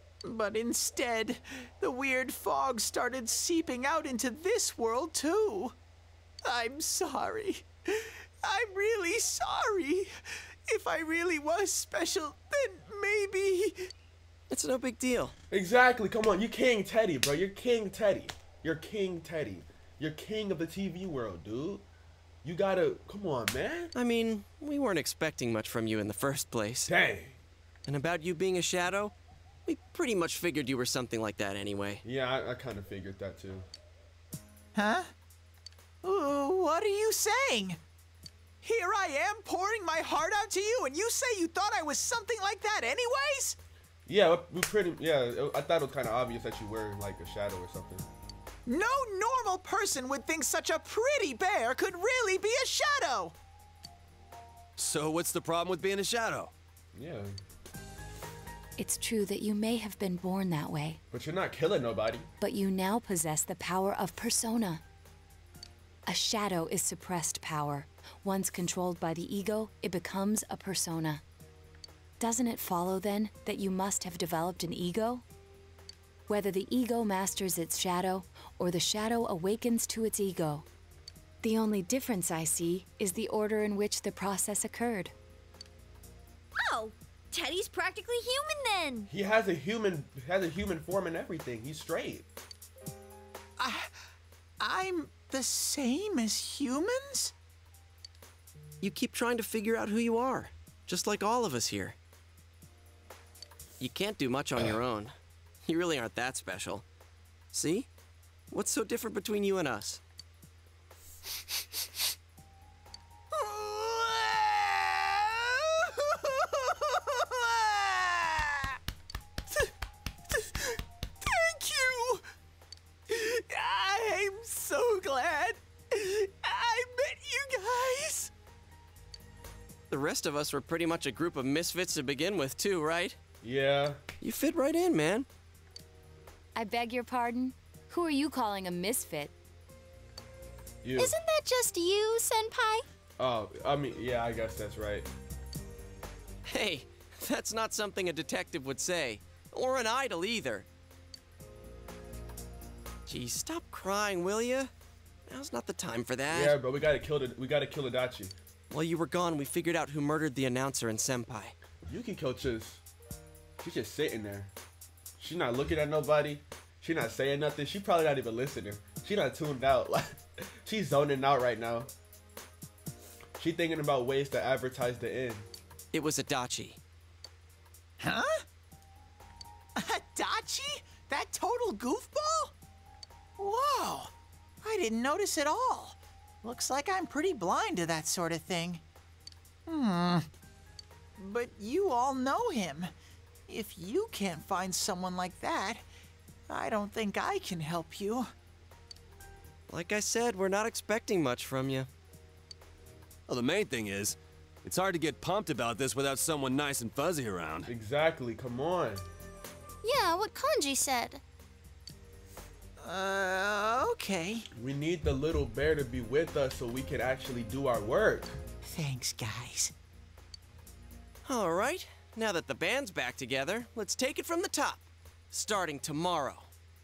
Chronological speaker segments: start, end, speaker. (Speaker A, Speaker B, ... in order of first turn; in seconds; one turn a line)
Speaker A: 0.2-5.7
Speaker A: 6.4-10.1
Speaker A: 10.7-13.9
Speaker B: 14.5-15.3
Speaker C: 15.5-21.9
Speaker C: 22.4-23.9
Speaker B: 23.9-26.9
Speaker C: 26.9-27.4
Speaker B: 27.9-29.1
Speaker B: 29.6-32.0
Speaker C: 32.0-33.7
Speaker A: 34.7-35.1
Speaker A: 36.0-37.8
Speaker A: 38.6-43.6
Speaker C: 44.0-48.0
Speaker A: 48.6-53.3
Speaker D: 54.8-56.5
Speaker C: 56.9-57.3
Speaker E: 58.8-61.0
Speaker C: 61.1-62.3
Speaker E: 62.4-64.8
Speaker E: 66.1-71.2
Speaker E: 72.2-75.2
Speaker E: 76.3-80.6
Speaker E: 81.4-85.1
Speaker F: 86.6-89.0
Speaker C: 89.1-92.3
Speaker A: 93.6-93.9
Speaker A: 94.6-97.3
Speaker B: 98.8-102.0
Speaker B: 103.8-106.8
Speaker B: 107.5-107.9
Speaker B: 108.5-110.0
Speaker A: 113.3-118.8
Speaker A: 120.3-122.2
Speaker A: 123.1-128.3
Speaker B: 129.9-133.2
Speaker C: 133.4-134.0
Speaker B: 134.2-135.3
Speaker E: 136.5-139.3
Speaker C: 140.8-141.1
Speaker G: 141.0-142.8
Speaker C: 143.2-145.1
Speaker B: 146.4-150.7
Speaker B: 153.1-154.7
Speaker B: 155.3-156.5
Speaker C: 156.3-158.3
Speaker B: 158.7-161.6
Speaker C: 161.9-162.8
Speaker C: 163.6-164.5
Speaker C: 165.2-171.9
Speaker C: 173.4-175.5
Speaker B: 175.9-176.8
Speaker A: 178.0-178.4
Speaker A: 179.8-182.5
Speaker A: 183.4-188.8
Speaker A: 189.7-190.3
Speaker A: 191.2-192.9
Speaker A: 193.5-195.8
Speaker A: 196.5-198.3
Speaker B: 199.7-201.9
Speaker D: 203.3-207.7
Speaker C: 207.7-209.0
Speaker G: 209.8-211.2
Speaker A: 212.8-214.4
Speaker C: 214.5-218.4
Speaker A: 218.7-219.7
Speaker B: 221.2-226.5